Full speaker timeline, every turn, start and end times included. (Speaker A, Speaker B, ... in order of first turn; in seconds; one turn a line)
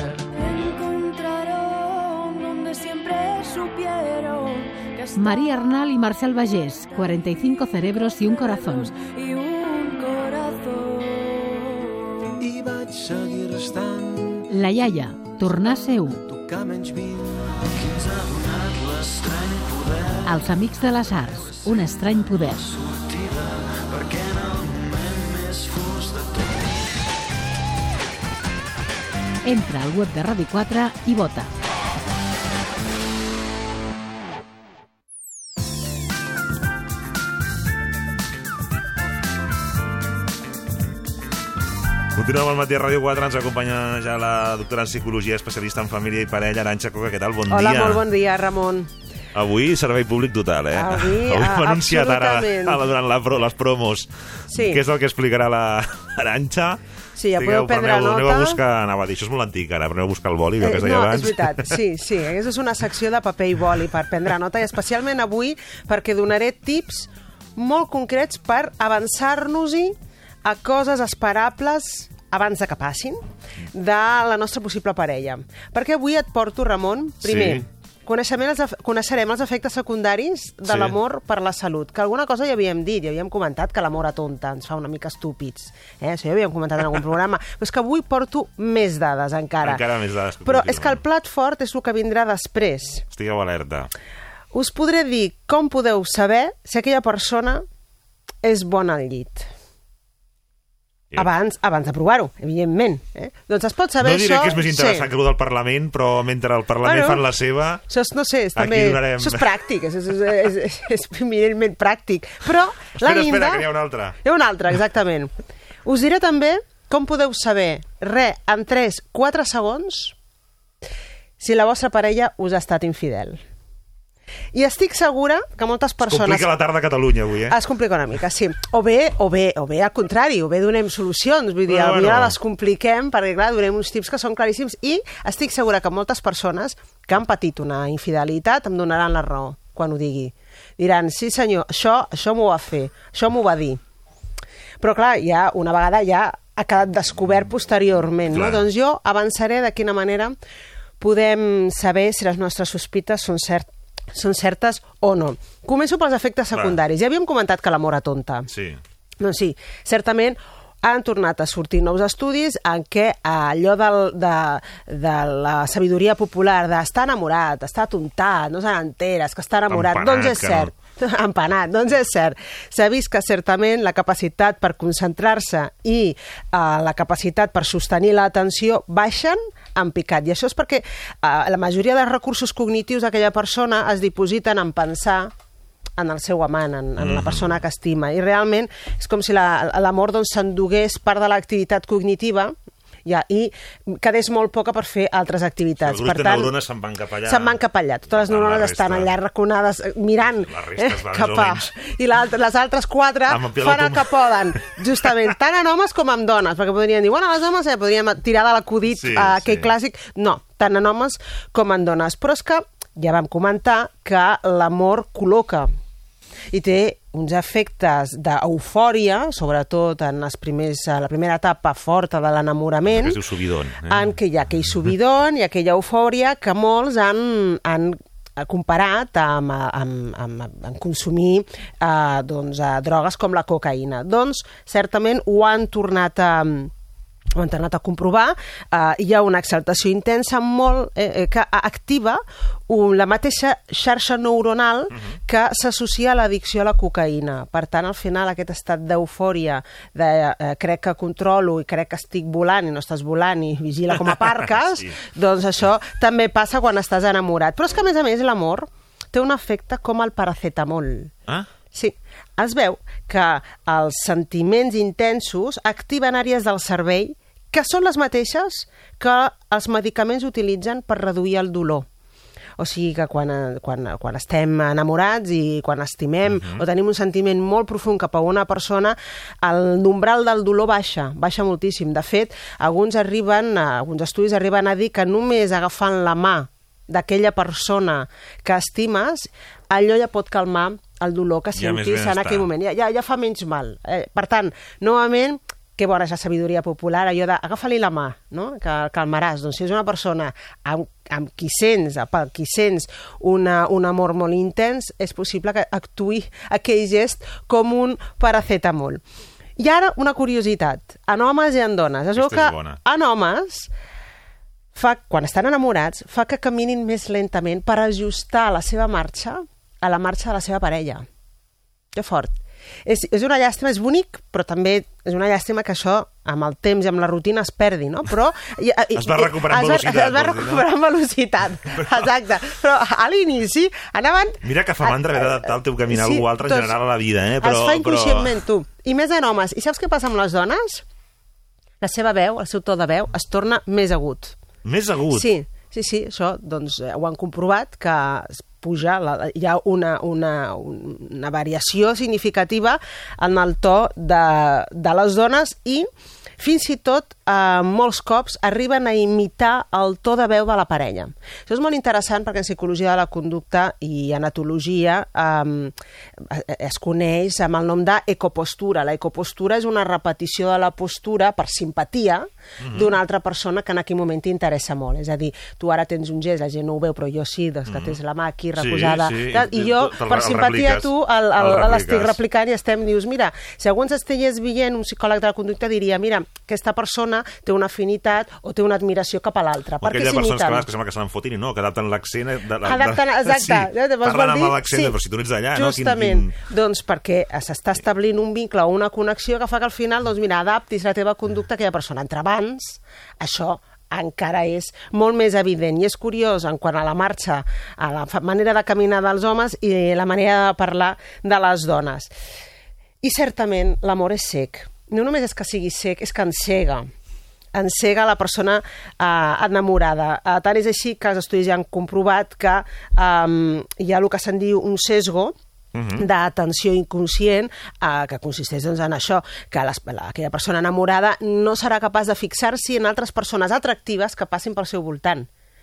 Speaker A: 0.3-5.7
Speaker B: 5.2-8.9
Speaker A: 6.2-7.5
Speaker A: 8.4-11.9
Speaker C: 12.4-14.5
Speaker B: 14.5-16.2
Speaker C: 16.2-20.4
Speaker B: 20.2-22.8
Speaker C: 21.4-21.8
Speaker C: 22.8-26.5
Speaker B: 29.4-31.5
Speaker D: 42.1-48.0
Speaker E: 47.5-48.9
Speaker D: 49.3-56.8
Speaker E: 50.8-52.8
Speaker E: 54.5-54.8
Speaker E: 57.2-58.6
Speaker D: 57.4-61.8
Speaker E: 60.6-73.2
Speaker E: 73.7-89.8
Speaker D: 77.2-77.7
Speaker D: 80.7-81.0
Speaker D: 89.6-91.0
Speaker E: 90.5-93.0
Speaker D: 93.1-93.9
Speaker E: 94.5-97.6
Speaker E: 98.4-99.5
Speaker E: 101.2-105.1
Speaker D: 104.0-107.8
Speaker E: 106.8-107.3
Speaker E: 107.9-113.7
Speaker D: 108.5-109.5
Speaker D: 113.0-114.2
Speaker E: 114.2-115.3
Speaker E: 115.8-120.2
Speaker E: 121.4-123.4
Speaker E: 124.5-126.5
Speaker D: 126.0-127.6
Speaker E: 127.5-143.8
Speaker D: 131.7-132.4
Speaker E: 144.8-150.4
Speaker D: 148.3-148.7
Speaker E: 151.0-158.5
Speaker D: 156.5-156.8
Speaker D: 158.5-158.8
Speaker E: 159.2-185.3
Speaker D: 169.7-170.7
Speaker E: 186.0-192.5
Speaker D: 187.0-187.6
Speaker E: 193.1-196.5
Speaker D: 195.8-197.6
Speaker E: 197.3-215.7
Speaker D: 198.1-199.1
Speaker D: 200.4-201.7
Speaker D: 203.3-204.6
Speaker D: 208.9-209.7
Speaker E: 216.5-223.2
Speaker D: 222.8-224.1
Speaker E: 223.9-236.7
Speaker E: 237.3-261.1
Speaker D: 254.6-255.0
Speaker E: 261.7-271.9
Speaker E: 272.6-309.0
Speaker D: 276.3-276.7
Speaker D: 291.6-292.5
Speaker E: 309.6-313.7
Speaker D: 312.1-312.8
Speaker E: 314.8-321.1
Speaker E: 321.9-336.8
Speaker D: 328.9-330.7
Speaker D: 331.8-332.1
Speaker D: 334.4-338.4
Speaker E: 337.4-340.8
Speaker E: 341.8-344.4
Speaker D: 344.6-345.3
Speaker E: 345.1-355.9
Speaker E: 356.4-390.7
Speaker D: 372.6-373.0
Speaker D: 377.7-378.0
Speaker D: 378.6-382.2
Speaker D: 389.8-396.4
Speaker E: 392.6-394.9
Speaker E: 395.5-412.1
Speaker E: 413.0-416.9
Speaker E: 417.5-425.4
Speaker D: 425.7-426.1
Speaker E: 426.0-435.3